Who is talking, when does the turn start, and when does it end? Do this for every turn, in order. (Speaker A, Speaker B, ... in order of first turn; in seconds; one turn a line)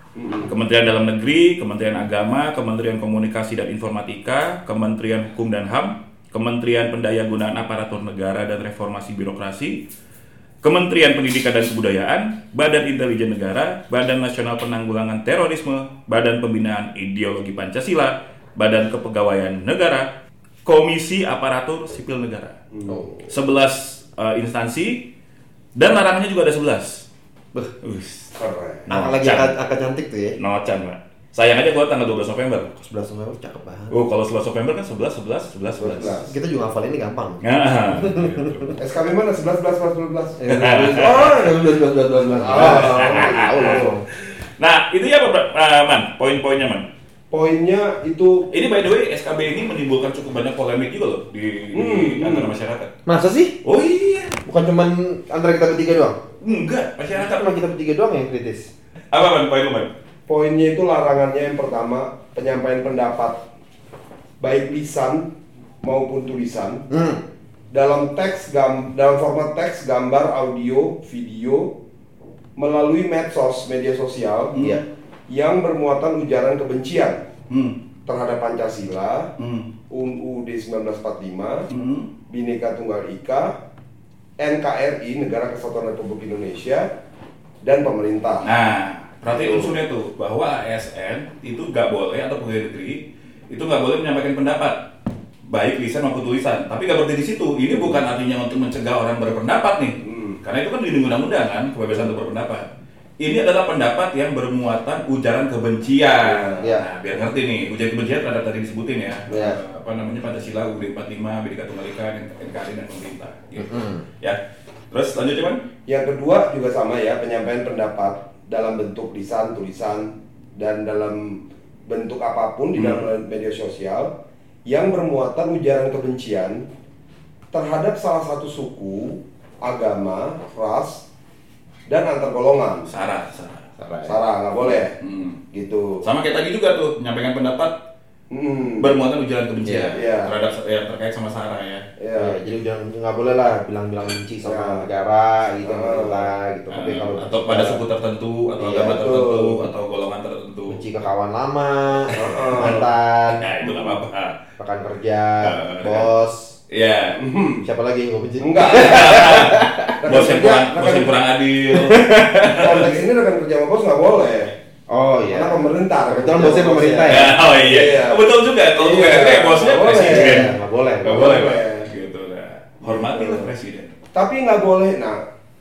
Speaker A: 0.2-0.5
Speaker B: 0.5-9.8
Speaker B: 10.6-20.1
Speaker B: 20.6-22.6
Speaker A: 22.7-23.0
Speaker C: 22.9-23.3
Speaker B: 23.3-25.0
Speaker B: 25.8-27.1
Speaker B: 27.8-28.3
Speaker A: 28.4-28.9
Speaker B: 28.9-29.5
Speaker C: 28.9-30.4
Speaker B: 30.4-32.9
Speaker C: 32.9-34.0
Speaker B: 33.9-36.3
Speaker A: 35.8-36.3
Speaker C: 36.3-37.4
Speaker B: 37.4-38.7
Speaker C: 38.0-38.7
Speaker A: 38.8-40.4
Speaker C: 40.4-44.0
Speaker B: 40.5-41.5
Speaker A: 42.4-43.9
Speaker B: 42.6-46.9
Speaker A: 47.3-48.5
Speaker B: 48.5-52.9
Speaker A: 51.7-52.5
Speaker C: 53.1-53.6
Speaker B: 53.6-54.4
Speaker C: 54.5-56.2
Speaker B: 56.4-57.5
Speaker C: 57.2-58.7
Speaker B: 59.1-59.9
Speaker A: 60.3-63.4
Speaker A: 64.4-65.3
Speaker A: 65.8-66.8
Speaker C: 66.9-67.2
Speaker A: 67.7-71.7
Speaker A: 72.6-74.8
Speaker B: 74.5-74.8
Speaker A: 75.3-77.2
Speaker B: 77.5-77.8
Speaker A: 78.1-79.3
Speaker B: 79.4-79.7
Speaker A: 79.9-81.7
Speaker B: 81.7-82.1
Speaker A: 82.3-83.6
Speaker A: 84.4-86.9
Speaker A: 87.6-88.5
Speaker B: 88.4-94.8
Speaker A: 89.3-89.8
Speaker B: 95.5-102.7
Speaker A: 100.0-100.4
Speaker B: 103.2-114.4
Speaker A: 106.2-106.6
Speaker C: 109.3-109.6
Speaker C: 113.6-114.0
Speaker B: 114.9-115.6
Speaker A: 115.9-124.1
Speaker B: 122.8-123.1
Speaker A: 124.7-126.6
Speaker A: 127.5-131.0
Speaker A: 131.9-132.9
Speaker B: 132.9-133.7
Speaker C: 133.8-134.1
Speaker A: 134.1-134.9
Speaker B: 135.0-135.4
Speaker A: 135.5-136.0
Speaker B: 136.0-137.8
Speaker A: 138.3-138.9
Speaker B: 138.8-141.8
Speaker C: 139.7-140.0
Speaker A: 139.9-140.3
Speaker A: 142.0-142.4
Speaker C: 142.1-147.8
Speaker A: 144.4-144.9
Speaker A: 145.6-146.3
Speaker B: 146.7-150.8
Speaker A: 148.6-149.7
Speaker C: 150.7-153.5
Speaker A: 152.1-152.9
Speaker B: 152.6-154.4
Speaker C: 154.6-156.5
Speaker B: 155.4-156.1
Speaker B: 156.7-157.2
Speaker A: 157.2-157.6
Speaker C: 157.6-160.0
Speaker A: 158.4-159.4
Speaker B: 158.7-163.0
Speaker A: 160.0-161.1
Speaker C: 161.8-162.0
Speaker A: 162.5-164.5
Speaker C: 164.9-167.3
Speaker A: 165.3-168.2
Speaker B: 167.1-170.5
Speaker A: 168.8-170.5
Speaker C: 170.0-171.4
Speaker B: 171.0-174.0
Speaker A: 171.1-171.9
Speaker A: 172.8-173.5
Speaker A: 174.2-175.2